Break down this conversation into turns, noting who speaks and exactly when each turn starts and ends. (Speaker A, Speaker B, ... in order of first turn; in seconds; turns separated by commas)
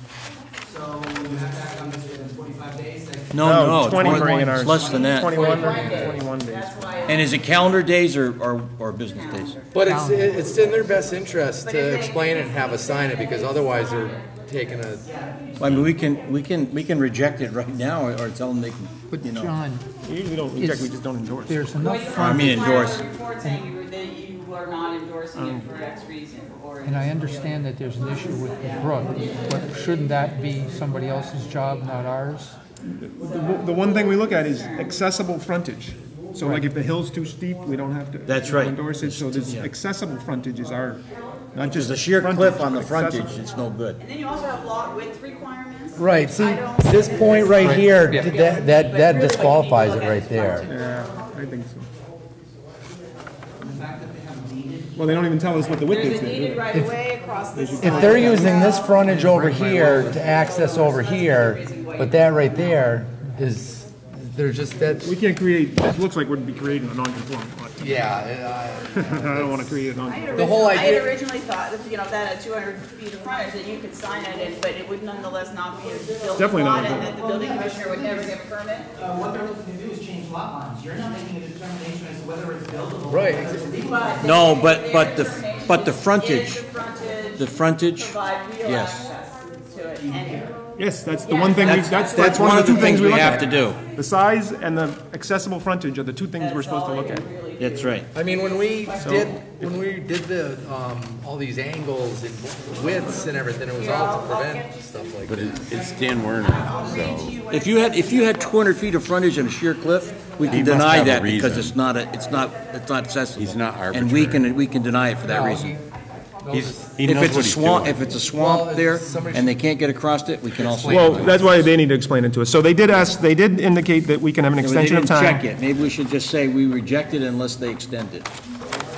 Speaker A: 0.6-5.1, Speaker B: 3.3-5.7, Speaker C: 3.4-6.8, Speaker D: 4.8-7.5, Speaker E: 5.2-6.3, Speaker B: 7.0-9.6, Speaker D: 9.1-9.8, Speaker E: 9.7-15.1, Speaker F: 9.8-10.6, Speaker D: 11.6-15.9, Speaker B: 15.6-19.5, Speaker F: 19.1-19.9, Speaker C: 20.0-21.8, Speaker F: 20.5-22.8, Speaker D: 21.8-30.4, Speaker B: 22.1-23.1, Speaker C: 25.3-25.7, Speaker F: 26.8-32.6, Speaker C: 32.8-41.0, Speaker D: 33.2-35.0, Speaker B: 38.2-39.7, Speaker C: 41.5-43.4, Speaker B: 41.6-44.0, Speaker D: 44.0-50.8, Speaker E: 46.0-50.7, Speaker C: 50.6-51.9, Speaker A: 53.6-55.2, Speaker C: 54.9-56.7, Speaker D: 55.8-62.6, Speaker C: 57.5-58.6, Speaker E: 57.8-65.1, Speaker A: 59.1-60.2, Speaker C: 65.0-68.3, Speaker E: 67.8-71.2, Speaker C: 68.9-70.7, Speaker D: 70.0-78.9, Speaker A: 76.1-78.3, Speaker C: 76.4-77.1, Speaker A: 79.0-84.3, Speaker E: 83.1-83.8, Speaker D: 83.8-90.6, Speaker B: 84.2-86.6, Speaker B: 87.3-89.1, Speaker A: 90.0-90.4, Speaker C: 90.8-97.3, Speaker D: 91.2-93.7, Speaker B: 91.6-93.8, Speaker D: 96.4-99.4, Speaker B: 97.6-98.1, Speaker E: 98.1-105.6, Speaker C: 99.0-99.7, Speaker D: 103.7-104.8, Speaker G: 105.2-107.3, Speaker D: 105.5-105.9, Speaker D: 106.4-108.6, Speaker B: 107.5-115.8, Speaker G: 110.5-111.8, Speaker G: 113.3-114.5, Speaker E: 115.2-115.8, Speaker E: 116.4-117.2, Speaker B: 116.5-121.5, Speaker C: 117.0-117.7, Speaker G: 117.4-118.0, Speaker E: 118.2-119.8, Speaker E: 120.5-121.6, Speaker C: 120.9-125.4, Speaker B: 124.6-128.3